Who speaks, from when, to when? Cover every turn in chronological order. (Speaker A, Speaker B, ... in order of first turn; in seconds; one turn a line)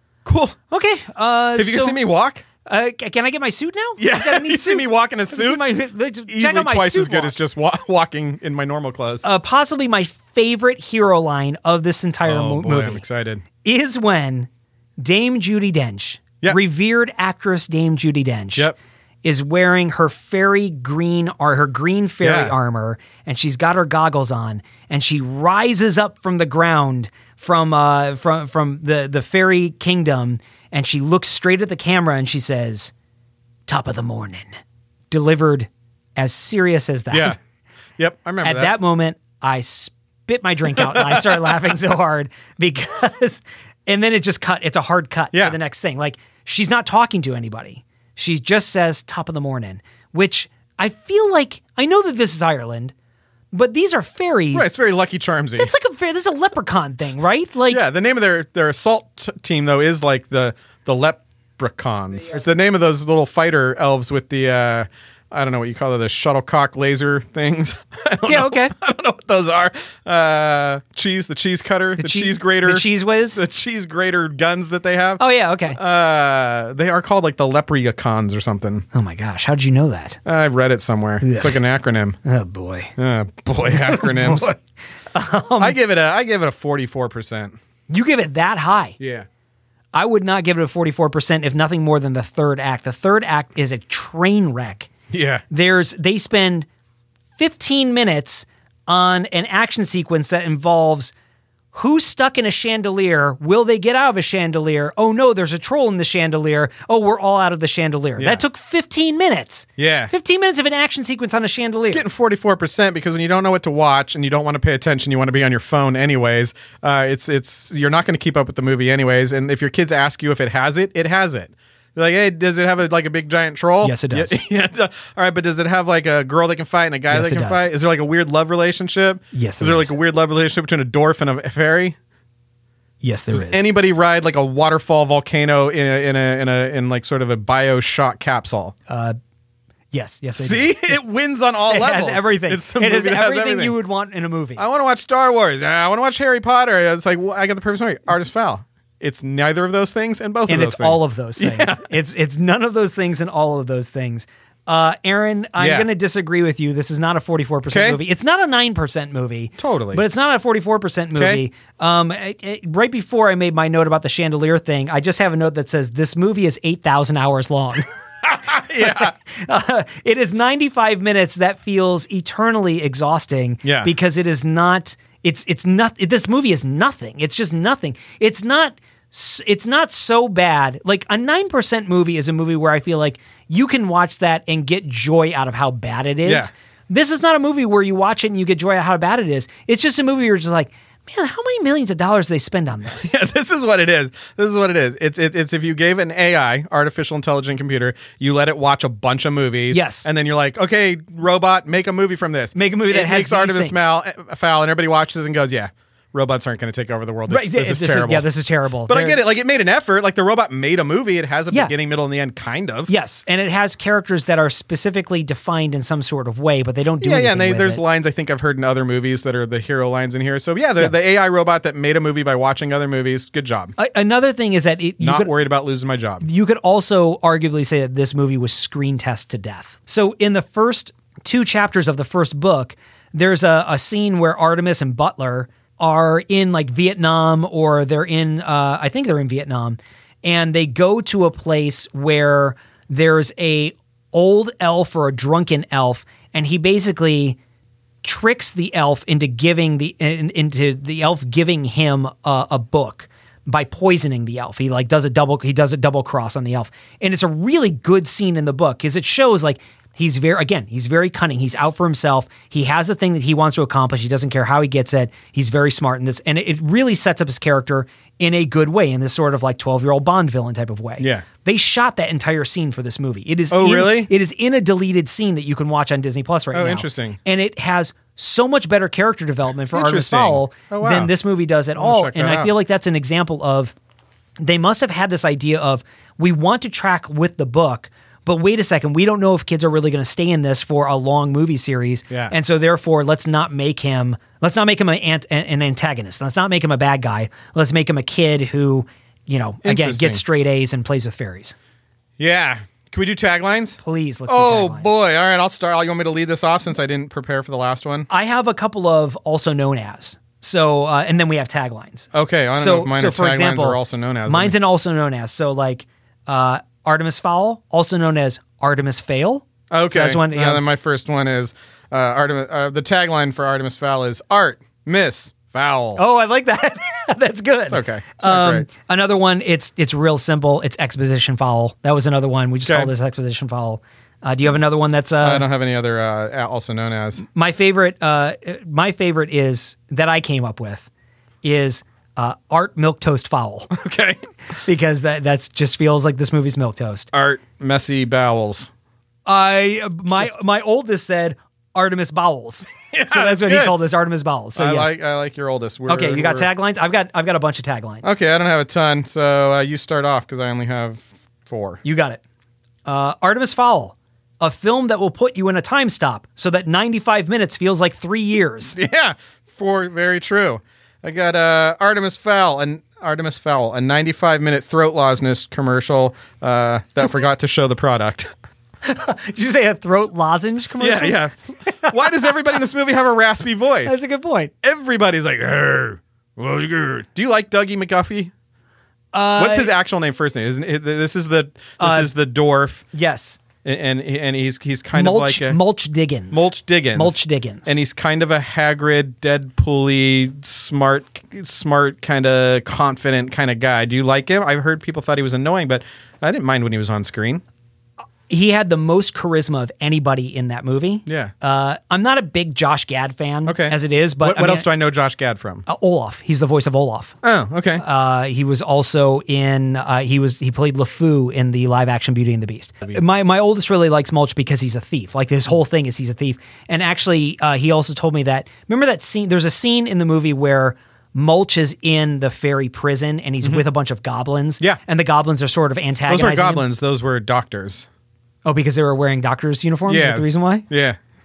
Speaker A: 0.2-0.6
Speaker B: 0.7-2.0
Speaker A: 1.6-2.4
Speaker B: 2.6-7.4
Speaker A: 4.0-5.8
Speaker A: 6.3-9.2
Speaker B: 9.2-13.0
Speaker A: 12.2-13.4
Speaker B: 13.6-18.7
Speaker B: 19.2-32.9
Speaker A: 22.2-22.6
Speaker B: 33.7-34.5
Speaker B: 35.1-37.4
Speaker A: 37.1-37.4
Speaker A: 38.0-38.7
Speaker B: 38.4-52.9
Speaker A: 40.7-41.5
Speaker B: 53.5-54.7
Speaker A: 54.5-55.7
Speaker B: 55.6-57.8
Speaker A: 57.7-78.8
Speaker B: 68.2-68.7
Speaker B: 72.0-73.4
Speaker B: 75.2-75.8
Speaker B: 78.9-80.2
Speaker A: 80.2-82.2
Speaker B: 81.2-81.6
Speaker B: 82.2-82.9
Speaker A: 83.0-84.5
Speaker B: 83.7-84.6
Speaker B: 85.1-85.8
Speaker A: 85.6-87.6
Speaker B: 87.9-89.0
Speaker A: 89.0-89.3
Speaker B: 89.9-94.9
Speaker A: 95.1-95.4
Speaker B: 95.5-96.7
Speaker B: 97.4-101.1
Speaker B: 101.7-112.0
Speaker A: 108.2-108.4
Speaker A: 109.8-110.1
Speaker A: 111.8-131.9
Speaker B: 123.8-124.4
Speaker B: 127.1-127.7
Speaker B: 129.3-129.9
Speaker B: 133.0-133.7
Speaker A: 133.3-138.7
Speaker B: 138.9-139.2
Speaker B: 139.9-141.0
Speaker A: 140.3-143.8
Speaker B: 141.7-144.6
Speaker A: 144.6-151.9
Speaker B: 150.5-167.8
Speaker A: 155.6-155.9
Speaker A: 157.7-158.0
Speaker A: 159.6-160.0
Speaker A: 161.2-161.4
Speaker A: 168.3-169.1
Speaker B: 168.4-193.1
Speaker A: 173.6-173.9
Speaker A: 186.2-186.5
Speaker A: 193.0-208.3
Speaker B: 199.7-200.1
Speaker B: 202.5-203.8
Speaker B: 207.3-209.2
Speaker A: 208.9-212.9
Speaker B: 212.9-217.8
Speaker A: 217.0-223.7
Speaker B: 223.8-225.3
Speaker A: 225.0-226.2
Speaker B: 226.2-247.4
Speaker B: 248.0-283.7
Speaker A: 271.0-271.2
Speaker A: 273.5-274.1
Speaker A: 276.5-277.2
Speaker A: 279.7-281.1
Speaker A: 281.8-282.5
Speaker B: 284.4-301.5
Speaker A: 299.6-300.2
Speaker A: 302.2-308.1
Speaker B: 303.8-305.0
Speaker B: 308.1-320.6
Speaker A: 312.1-314.6
Speaker A: 319.7-326.0
Speaker B: 325.9-335.5
Speaker A: 327.7-328.7
Speaker A: 332.6-332.9
Speaker A: 335.2-337.2
Speaker B: 337.3-340.9
Speaker B: 341.4-343.7
Speaker A: 343.7-344.2
Speaker B: 344.6-347.1
Speaker A: 347.1-348.7
Speaker B: 349.2-354.9
Speaker A: 352.9-353.8
Speaker A: 354.6-356.5
Speaker B: 355.9-358.1
Speaker A: 358.0-361.8
Speaker B: 361.8-362.2
Speaker B: 362.9-368.8
Speaker A: 368.7-378.3
Speaker B: 378.8-382.3
Speaker A: 380.8-384.0
Speaker B: 383.8-384.5
Speaker A: 384.6-388.3
Speaker B: 389.1-389.7
Speaker A: 389.4-392.8
Speaker B: 391.8-392.1
Speaker B: 392.9-393.4
Speaker A: 393.6-395.6
Speaker B: 394.9-397.8
Speaker A: 396.3-407.4
Speaker B: 408.3-414.7
Speaker A: 411.1-411.3
Speaker A: 413.4-415.6
Speaker B: 415.7-417.1
Speaker A: 417.2-417.8
Speaker B: 417.8-436.6
Speaker A: 436.1-437.9
Speaker B: 438.4-440.6
Speaker A: 439.9-441.0